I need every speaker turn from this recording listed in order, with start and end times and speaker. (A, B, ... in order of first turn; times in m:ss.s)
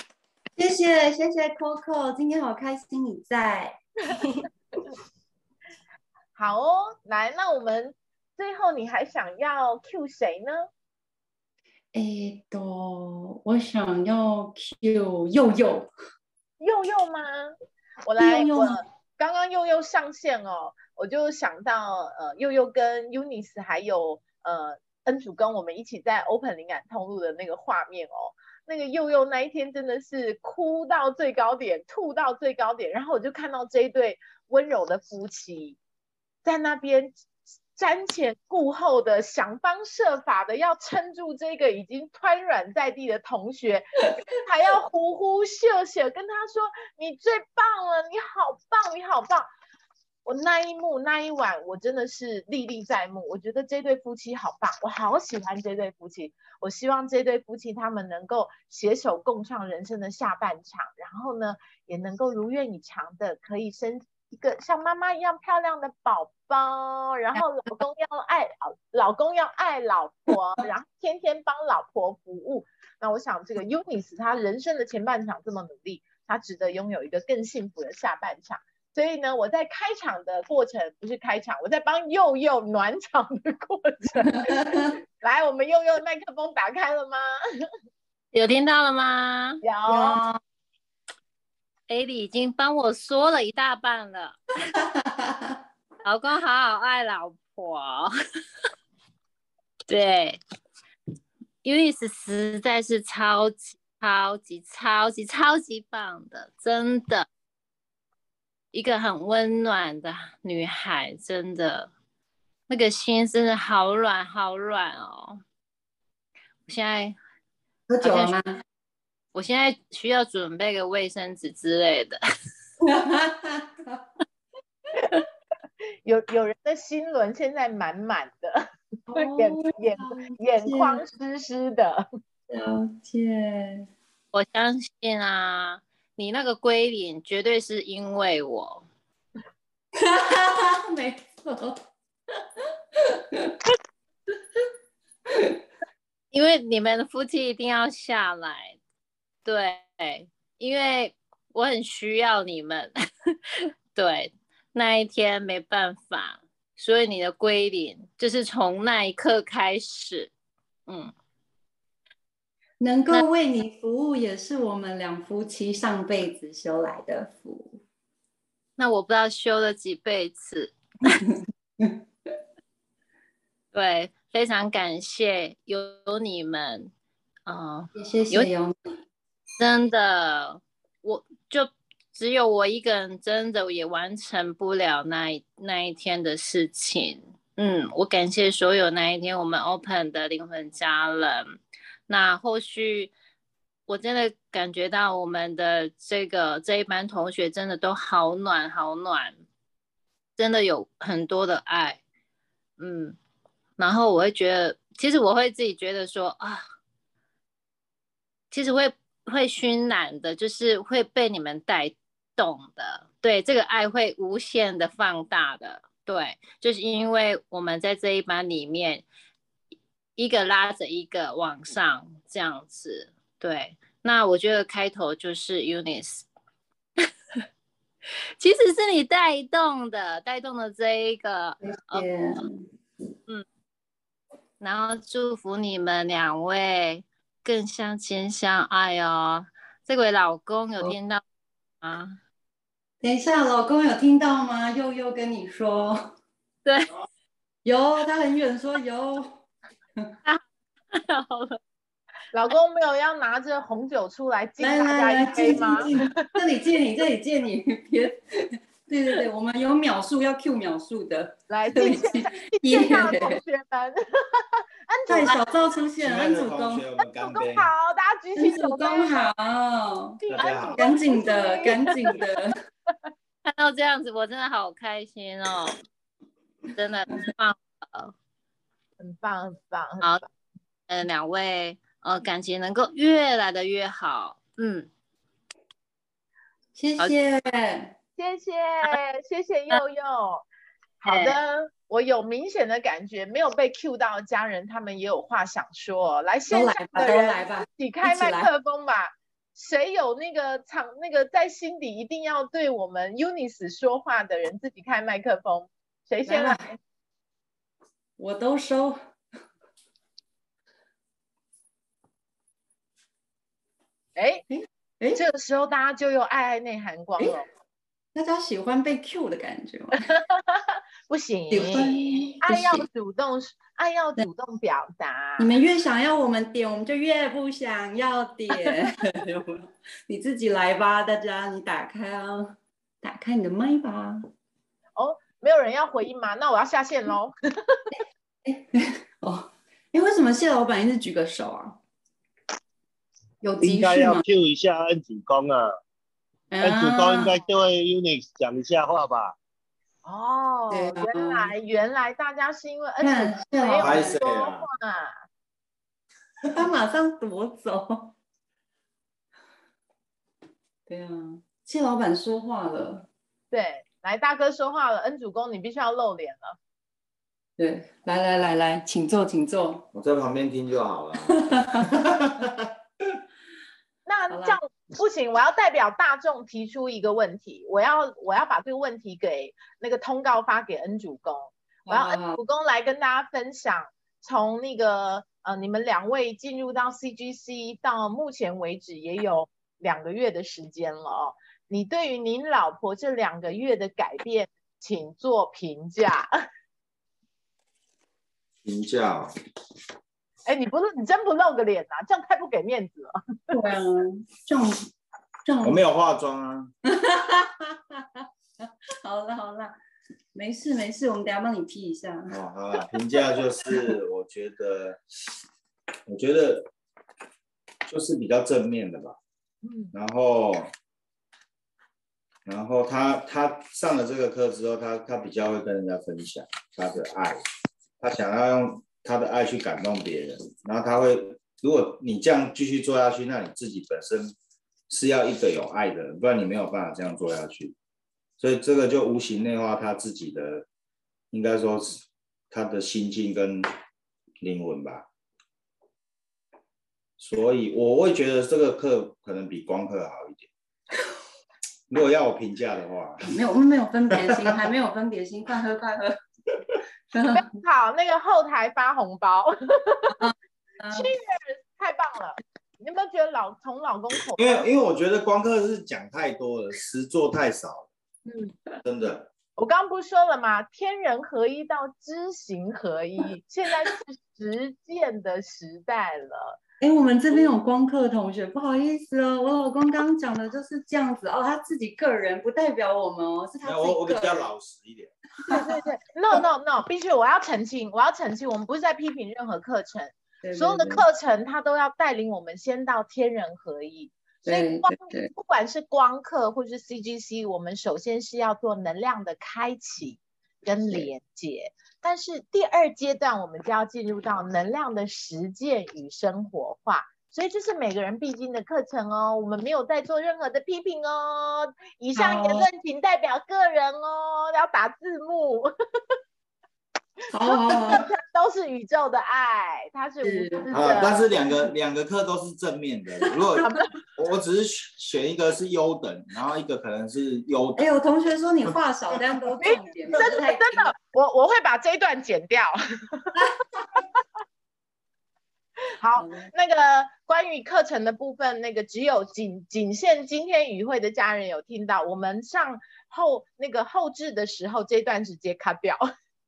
0:00.6-0:03.8 A
0:06.4-0:10.7 B
0:11.9-0:15.9 A
0:16.6-0:35.8 B
0:18.2-0:18.8 A
0:36.4-0:37.2 B
0:37.7-0:49.5 B
0:50.2-1:27.7 B
1:24.2-1:24.9 A
1:28.3-1:29.6 C
1:29.6-1:30.2 B
1:29.9-1:30.4 A
1:31.9-1:34.8 C
1:34.7-1:35.6 A
1:36.0-1:38.1 C
1:39.9-1:40.4 C
1:41.6-1:47.2 C
1:48.7-1:51.9 C
1:52.7-1:55.4 C
1:56.7-1:57.2 C
1:57.9-1:58.6 A
1:58.0-1:58.4 C
1:59.3-2:02.2 C
2:02.8-2:04.0 A
2:06.0-2:12.1 B
2:09.1-2:11.0 A
2:12.5-2:13.9 A
2:14.3-2:18.8 C
2:20.0-2:21.8 A
2:22.4-2:23.6 A
2:25.3-2:25.6 A
2:26.3-2:28.8 C
2:29.4-2:33.4 C
2:33.9-2:40.3 C
2:40.9-2:41.1 C
2:42.8-2:47.8 A
2:48.8-2:51.2 C
2:51.2-2:52.0 A
2:53.7-2:56.9 C
2:57.4-2:58.5 C
2:58.0-2:58.7 A
2:59.6-3:11.5 C
3:12.1-3:13.1 C
3:13.9-3:19.4 C
3:20.4-3:22.0 C
3:22.8-3:23.2 C
3:23.8-3:26.6 C
3:28.5-3:39.0 C
3:40.2-3:46.2 C
3:48.4-3:52.0 C
3:51.6-3:52.6 A
3:54.6-4:01.2 C
4:01.8-4:02.2 C
4:03.0-4:06.1 A
4:07.6-4:09.4 A
4:10.9-4:11.6 C
4:12.3-4:16.0 B
4:14.6-4:23.4 A
4:21.5-4:25.6 B
4:25.1-4:26.8 A
4:26.0-4:27.7 D
4:27.2-4:29.3 B
4:28.4-4:30.2 A
4:30.2-4:32.2 B
4:30.3-4:30.8 D
4:30.8-4:32.5 A
4:33.4-4:35.8 C
4:36.7-4:38.1 C
4:39.0-4:40.3 B
4:40.9-4:44.9 C
4:46.7-4:47.9 A
4:48.2-4:50.4 B
4:51.0-5:06.8 B
4:51.0-4:51.4 C
4:56.5-4:58.5 A
5:06.2-5:06.7 A
5:08.2-5:09.0 A
5:14.2-5:14.4 B
5:14.5-5:15.2 A
5:15.1-5:17.4 B
5:18.1-5:20.1 A
5:20.1-5:25.5 B
5:21.5-5:22.9 A
5:25.4-5:34.2 A
5:35.0-5:37.9 B
5:37.9-5:41.8 A
5:43.4-5:44.2 A
5:43.6-5:45.8 E
5:46.5-5:47.4 A
5:46.6-5:49.3 E
5:50.0-5:55.1 B
5:50.7-5:51.5 A
5:53.0-5:54.2 A
5:53.8-5:54.7 D
5:56.5-5:58.1 A
6:00.9-6:03.1 A
6:03.5-6:06.6 B
6:07.6-6:09.8 A
6:09.9-6:12.6 D
6:11.3-6:12.1 A
6:14.0-6:36.3 B
6:14.3-6:14.6 A
6:21.9-6:22.4 A
6:38.6-6:39.3 D
6:40.4-6:43.2 B
6:43.5-6:44.9 A
6:45.4-6:45.8 A
6:45.6-6:46.7 D
6:46.8-6:49.7 A
6:50.3-6:53.9 A
6:52.3-6:55.0 D
6:56.1-6:56.7 D
6:57.9-6:59.2 D
6:59.6-6:59.9 B
6:59.9-7:00.7 D
7:02.4-7:07.4 D
7:08.0-7:14.4 D
7:14.9-7:17.7 D
7:18.4-7:20.6 D
7:21.3-7:23.7 D
7:24.4-7:25.1 D
7:27.2-7:30.5 D
7:31.9-7:33.3 D
7:33.2-7:36.2 A
7:34.2-7:34.6 D
7:37.1-7:37.5 A
7:37.3-7:40.1 B
7:40.1-7:41.1 A
7:40.9-7:44.7 B
7:44.4-7:47.9 D
7:48.3-7:48.8 A
7:48.8-7:49.3 D
7:49.6-7:56.6 B
7:56.8-8:04.5 A
8:03.6-8:05.1 D
8:05.5-8:35.7 B
8:10.4-8:11.0 A
8:14.4-8:15.3 A
8:32.2-8:32.6 A
8:37.3-8:38.1 A
8:37.4-8:41.3 B
8:40.2-8:41.0 A
8:40.7-8:47.8 D
8:43.3-8:43.6 A
8:43.6-8:43.9 B
8:47.8-8:50.9 A
8:49.6-8:53.3 B
8:56.0-9:06.0 B
8:56.2-8:56.5 A